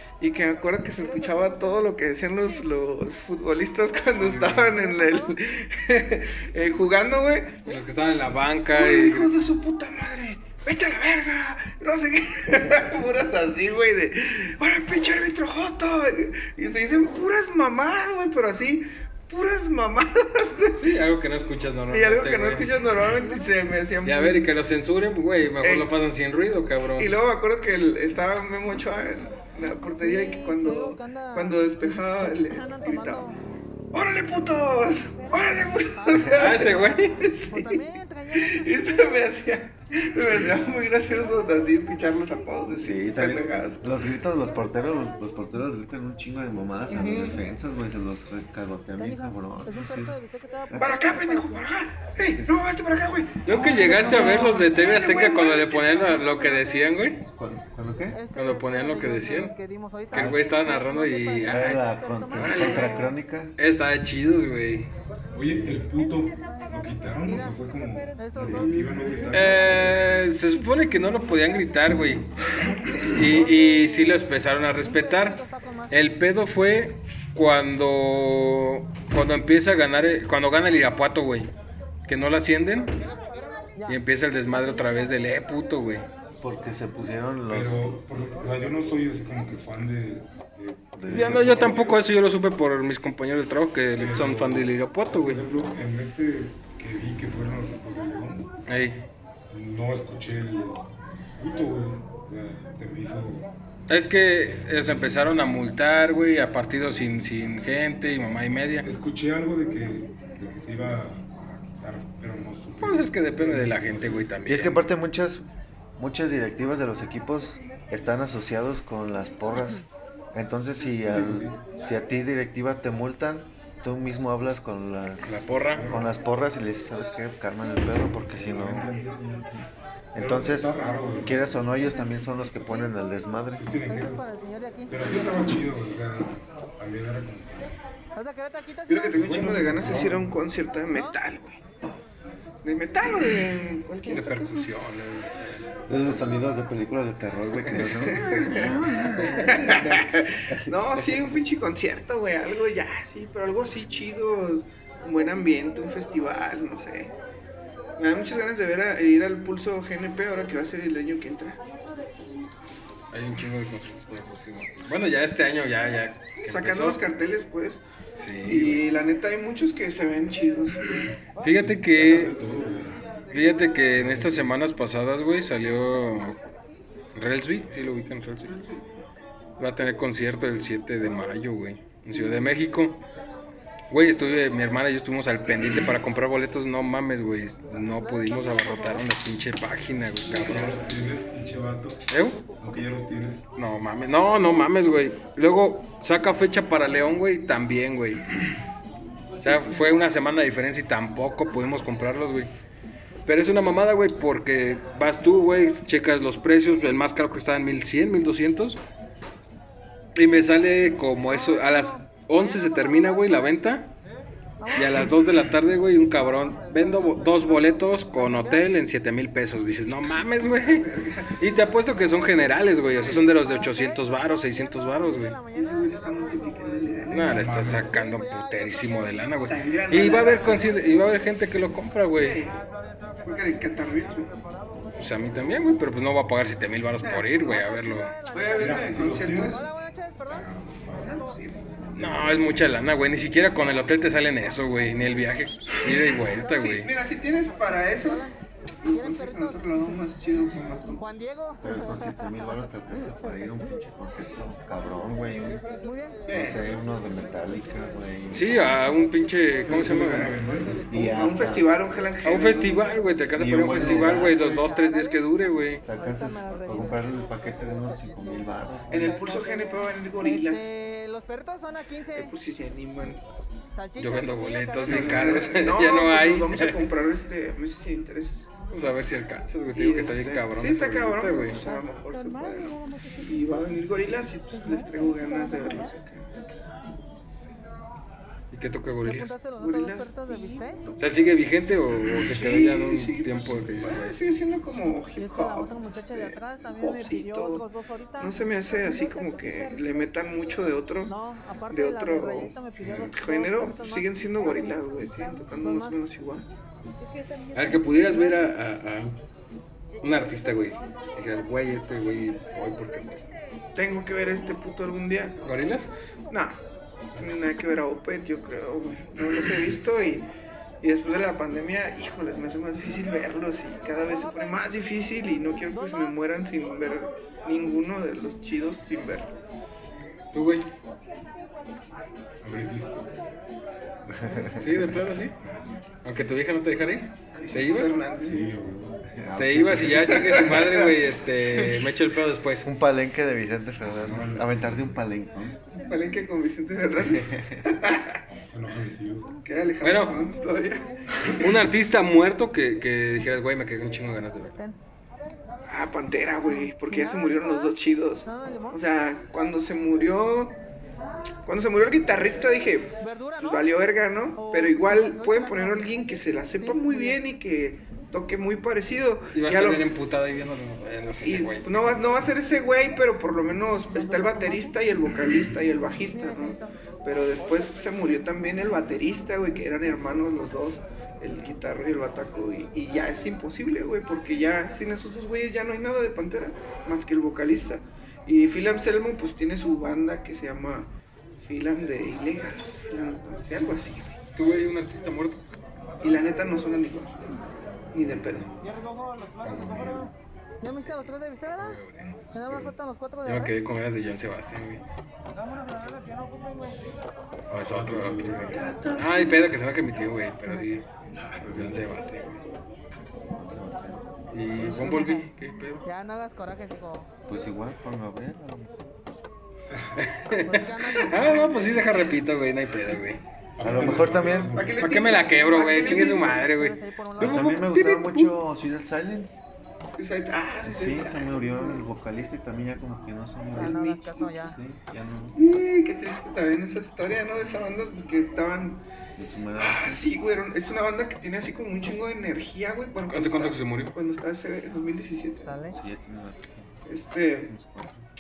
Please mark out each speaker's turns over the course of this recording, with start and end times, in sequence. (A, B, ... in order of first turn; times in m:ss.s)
0:00.2-0:07.6 A
0:04.1-0:04.8 B
0:07.6-0:09.3 B
0:08.7-0:20.8 A
0:20.7-0:22.8 B
0:21.9-0:24.4 A
0:24.0-0:27.2 B
0:25.6-0:25.9 A
0:27.0-0:33.3 A
0:30.0-0:31.5 C
0:32.2-0:33.4 C
0:33.9-0:43.9 A
0:36.0-0:36.2 C
0:36.1-0:36.5 D
0:36.2-0:37.2 B
0:37.5-0:38.7 C
0:42.7-0:51.1 D
0:46.9-0:47.4 A
0:49.0-0:51.6 C
0:50.8-0:56.3 A
0:53.4-0:57.2 B
0:57.3-0:58.2 D
0:58.1-1:03.1 C
0:58.3-0:59.5 B
1:00.1-1:04.9 B
1:00.1-1:00.4 D
1:01.4-1:03.5 D
1:05.3-1:10.2 E
1:08.2-1:08.7 C
1:08.7-1:09.2 A
1:09.3-1:12.3 B
1:12.6-1:13.5 E
1:12.6-1:13.4 A
1:13.1-1:21.5 B
1:15.0-1:15.9 C
1:22.0-1:22.9 B
1:23.9-1:26.1 B
1:26.4-1:27.9 D
1:27.5-1:32.1 E
1:31.0-1:31.8 D
1:31.1-1:35.4 B
1:34.0-1:38.5 E
1:38.7-1:39.1 B
1:39.5-1:43.5 E
1:43.9-1:48.9 B
1:44.4-1:45.4 E
1:48.8-1:54.3 E
1:52.8-1:54.8 B
1:54.4-1:55.4 D
1:56.0-2:08.9 D
2:01.0-2:01.6 E
2:05.2-2:05.9 B
2:05.7-2:06.1 E
2:08.3-2:09.5 E
2:10.1-2:11.6 E
2:10.1-2:13.7 D
2:13.6-2:14.3 E
2:14.3-2:14.9 C
2:14.9-2:17.8 E
2:18.2-2:18.8 C
2:18.8-2:21.6 A
2:19.1-2:20.4 E
2:22.6-2:24.7 A
2:24.0-2:26.2 B
2:25.9-2:31.2 D
2:27.7-2:28.0 B
2:28.0-2:37.1 A
2:38.0-2:41.6 A
2:43.1-2:47.0 B
2:46.4-2:47.8 A
2:48.2-2:48.8 B
2:48.4-2:50.9 A
2:51.4-2:52.3 B
2:51.6-2:53.3 E
2:53.3-2:56.4 B
2:53.9-2:54.5 E
2:57.1-2:58.5 B
2:58.4-2:59.0 A
2:59.6-3:03.0 B
3:03.9-3:10.8 B
3:08.3-3:08.9 C
3:10.3-3:13.4 E
3:12.1-3:12.4 B
3:13.6-3:18.2 B
3:19.4-3:22.5 B
3:23.2-3:28.8 B
3:30.1-3:33.9 B
3:34.7-3:40.9 B
3:40.6-3:41.4 A
3:41.4-3:45.4 B
3:45.5-3:47.8 A
3:47.1-3:52.4 B
3:47.2-3:48.0 E
3:49.4-3:50.7 A
3:52.1-3:52.6 A
3:53.2-3:54.3 A
3:54.9-3:58.2 B
3:57.0-3:57.6 A
3:58.2-3:59.7 A
3:58.3-3:58.6 C
3:58.6-3:59.7 E
3:59.8-4:00.2 C
4:00.2-4:01.2 E
4:01.0-4:02.3 A
4:02.0-4:06.9 B
4:06.4-4:08.3 A
4:08.8-4:11.4 A
4:09.0-4:09.6 C
4:11.0-4:11.6 C
4:11.6-4:15.6 D
4:15.8-4:16.2 C
4:16.2-4:16.6 A
4:16.3-4:18.5 D
4:18.3-4:20.4 B
4:19.6-4:20.9 E
4:20.9-4:21.7 D
4:20.9-4:22.8 A
4:22.2-4:25.8 B
4:23.4-4:24.4 D
4:24.5-4:25.0 C
4:25.8-4:29.2 D
4:26.0-4:27.0 C
4:28.9-4:30.8 A
4:30.2-4:32.3 C
4:32.1-4:33.2 A
4:33.8-4:35.0 C
4:34.0-4:36.9 B
4:34.8-4:38.5 A
4:38.7-4:41.6 B
4:39.7-4:46.3 A
4:48.5-4:49.4 B
4:49.1-4:50.8 C
4:49.6-4:51.0 A
4:51.0-4:54.2 B
4:52.1-4:57.7 A
4:55.2-4:58.2 C
4:58.2-5:01.2 A
5:01.1-5:04.6 C
5:01.7-5:06.5 A
5:05.6-5:06.0 C
5:07.5-5:09.2 B
5:10.0-5:13.2 B
5:13.7-5:15.4 A
5:15.4-5:15.9 B
5:16.3-5:16.6 A
5:17.2-5:20.3 A
5:20.8-5:29.3 A
5:30.3-5:30.7 B
5:32.4-5:33.1 E
5:34.0-5:35.6 E
5:34.1-5:34.6 D
5:34.6-5:35.4 B
5:36.0-5:38.0 B
5:37.3-5:38.5 A
5:38.2-5:39.0 E
5:39.1-5:40.2 D
5:39.4-5:42.7 B
5:40.1-5:40.9 A
5:42.6-5:45.6 D
5:43.9-5:45.0 E
5:45.7-5:48.2 A
5:47.0-5:47.7 D
5:48.3-5:49.3 E
5:49.4-5:51.5 A
5:49.8-5:50.3 B
5:51.4-5:54.6 B
5:55.6-6:00.6 A
5:56.6-5:57.6 C
5:58.3-5:58.7 C
6:01.4-6:09.8 A
6:03.0-6:03.6 C
6:04.4-6:05.9 C
6:06.6-6:07.2 C
6:09.3-6:11.8 B
6:11.2-6:34.2 A
6:14.1-6:14.7 C
6:16.1-6:16.6 C
6:34.3-6:35.4 B
6:36.0-6:37.2 A
6:37.9-6:38.5 A
6:38.0-6:38.7 E
6:39.4-6:40.0 B
6:40.6-6:41.4 C
6:40.8-6:42.5 B
6:42.3-6:43.2 C
6:43.2-6:44.8 B
6:47.5-6:48.7 E
6:47.5-6:52.4 B
6:48.4-6:49.4 A
6:51.4-6:51.9 E
6:53.3-6:54.0 D
6:54.3-6:55.8 B
6:54.6-6:55.2 A
6:55.8-6:57.1 C
6:57.3-6:58.7 D
7:00.0-7:03.2 B
7:00.4-7:01.7 C
7:03.6-7:04.9 E
7:03.6-7:04.6 D
7:03.8-7:06.5 A
7:04.8-7:07.6 B
7:05.7-7:07.5 C
7:07.2-7:09.4 D
7:07.4-7:08.3 A
7:09.9-7:11.8 A
7:10.6-7:13.8 D
7:13.5-7:14.6 A
7:13.6-7:14.5 C
7:14.3-7:15.4 D
7:15.3-7:18.8 A
7:19.2-7:20.0 D
7:19.5-7:25.6 A
7:23.1-7:24.0 B
7:25.4-7:25.8 C
7:25.7-7:26.8 D
7:26.8-7:27.5 A
7:27.4-7:28.0 D